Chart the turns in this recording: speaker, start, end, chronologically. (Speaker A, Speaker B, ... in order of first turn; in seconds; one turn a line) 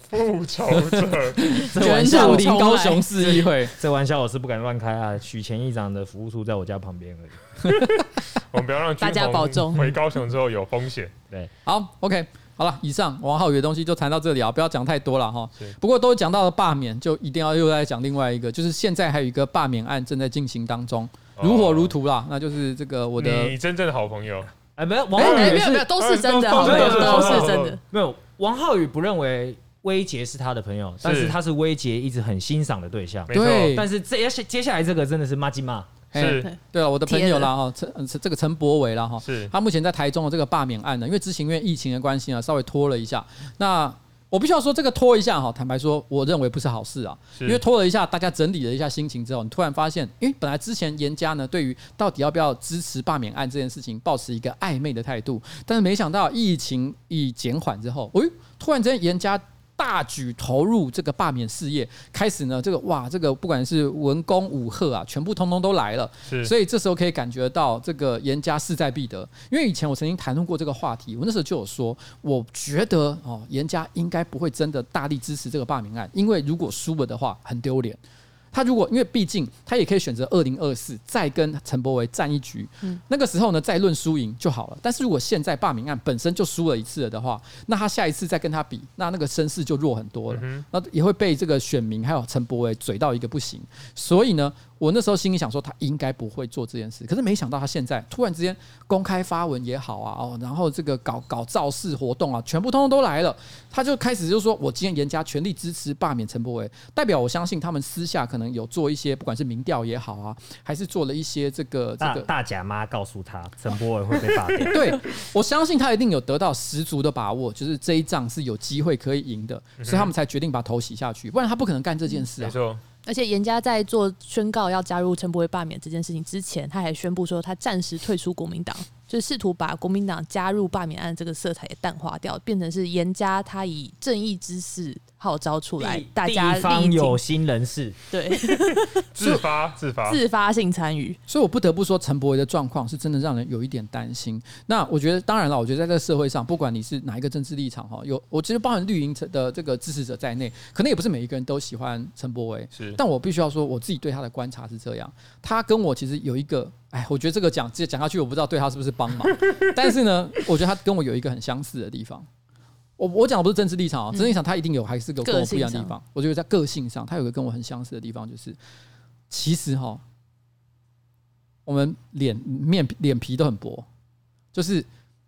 Speaker A: 0.1-1.7
Speaker B: 0.7-3.8
Speaker C: 1.8-2.5
Speaker D: 1.8-3.1
Speaker C: 3.7-7.6
Speaker B: 7.6-8.0
Speaker A: 8.0-11.1
Speaker D: 9.0-9.9
Speaker B: 11.7-23.6
Speaker A: 21.4-21.9
Speaker A: 23.2-24.5
Speaker C: 24.8-25.9
Speaker B: 25.2-25.5
Speaker D: 25.2-27.8
Speaker A: 25.2-27.8
Speaker C: 26.5-36.1
Speaker A: 31.0-31.4
Speaker A: 33.3-33.8
Speaker B: 33.3-33.9
Speaker B: 36.1-78.0
Speaker A: 36.1-36.5
Speaker D: 36.4-37.5
Speaker A: 39.2-39.5
Speaker B: 78.5-112.3
Speaker A: 90.3-90.6
Speaker C: 112.0-114.9
Speaker B: 114.7-122.6
Speaker A: 119.8-120.1
Speaker A: 122.4-122.8
Speaker D: 123.1-137.2
Speaker C: 135.8-138.0
Speaker D: 138.1-141.2
Speaker A: 139.0-140.2
Speaker B: 141.3-162.3
Speaker A: 152.7-153.0
Speaker B: 163.0-168.6
Speaker D: 165.2-165.9
Speaker B: 169.3-170.0
Speaker B: 171.7-173.9
Speaker B: 174.5-174.9